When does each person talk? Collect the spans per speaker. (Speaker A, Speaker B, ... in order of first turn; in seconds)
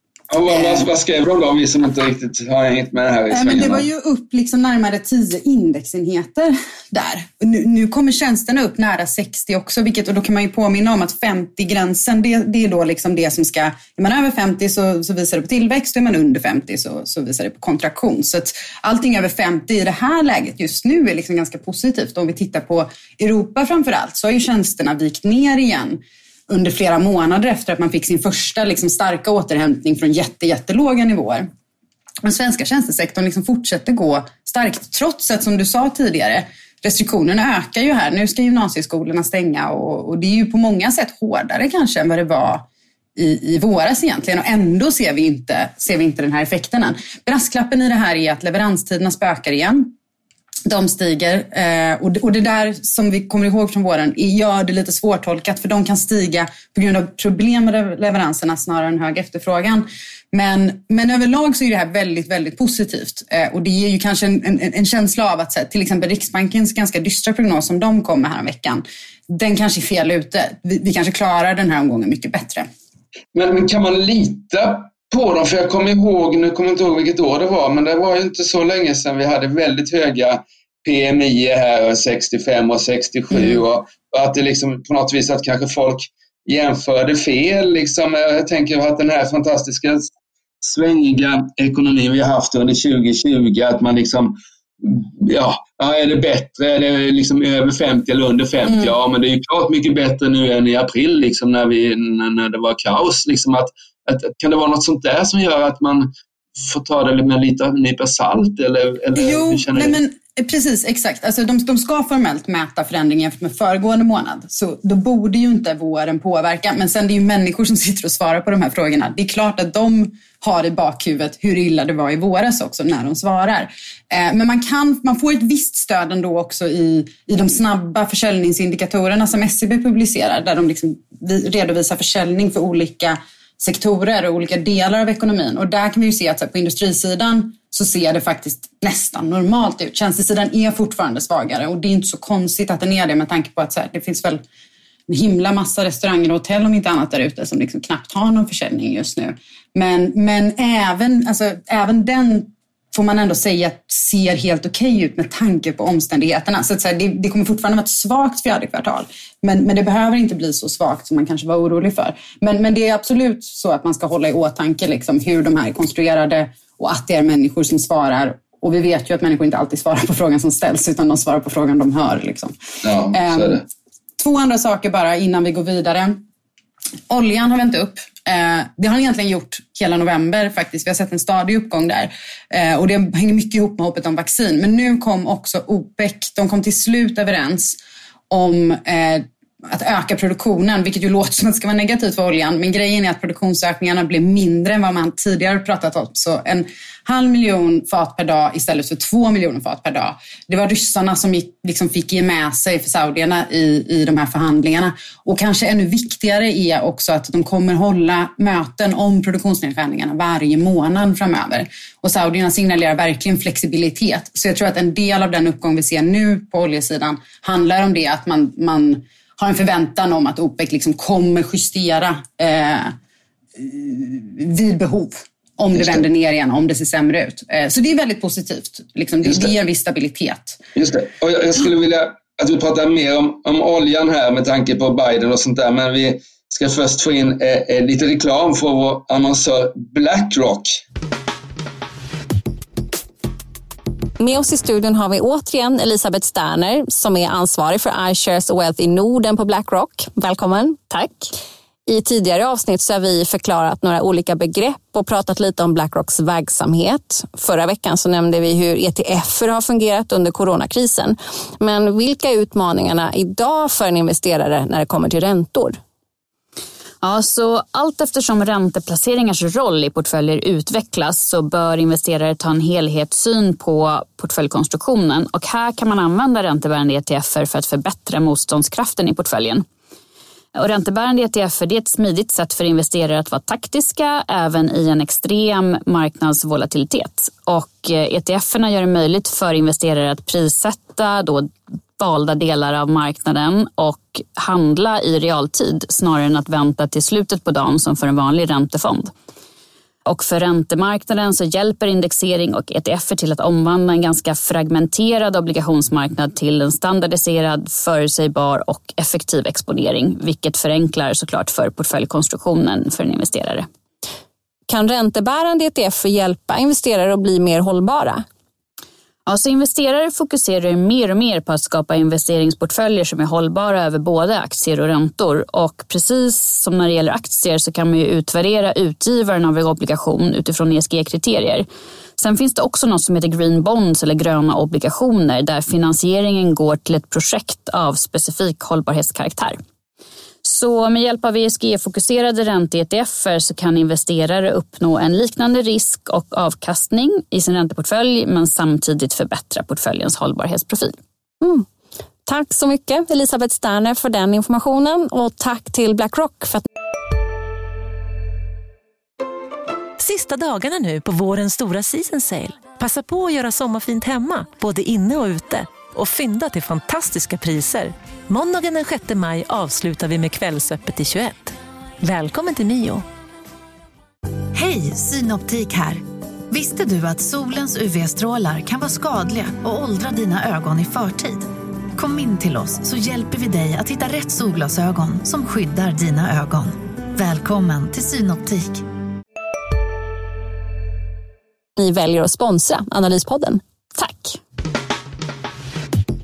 Speaker A: 0.3-3.8, 73.3-90.1, 90.6-110.0, 172.8-173.6, 225.7-226.0, 229.2-229.5, 230.8-240.8
Speaker B: 0.5-0.8, 3.3-31.5, 32.2-42.6, 43.1-49.9, 50.7-72.7, 109.1-144.4, 145.1-172.5, 173.1-173.6, 174.2-176.2, 177.1-187.8, 188.3-222.9, 223.6-230.6
Speaker C: 244.2-250.8, 251.9-265.8, 314.7-318.2, 351.4-351.6, 352.2-356.6, 391.8-394.4
Speaker D: 250.9-251.3, 267.0-279.6, 280.5-299.1, 300.0-313.6, 319.2-331.6, 332.2-339.6, 340.4-351.0
Speaker E: 360.0-373.0
Speaker F: 374.5-388.8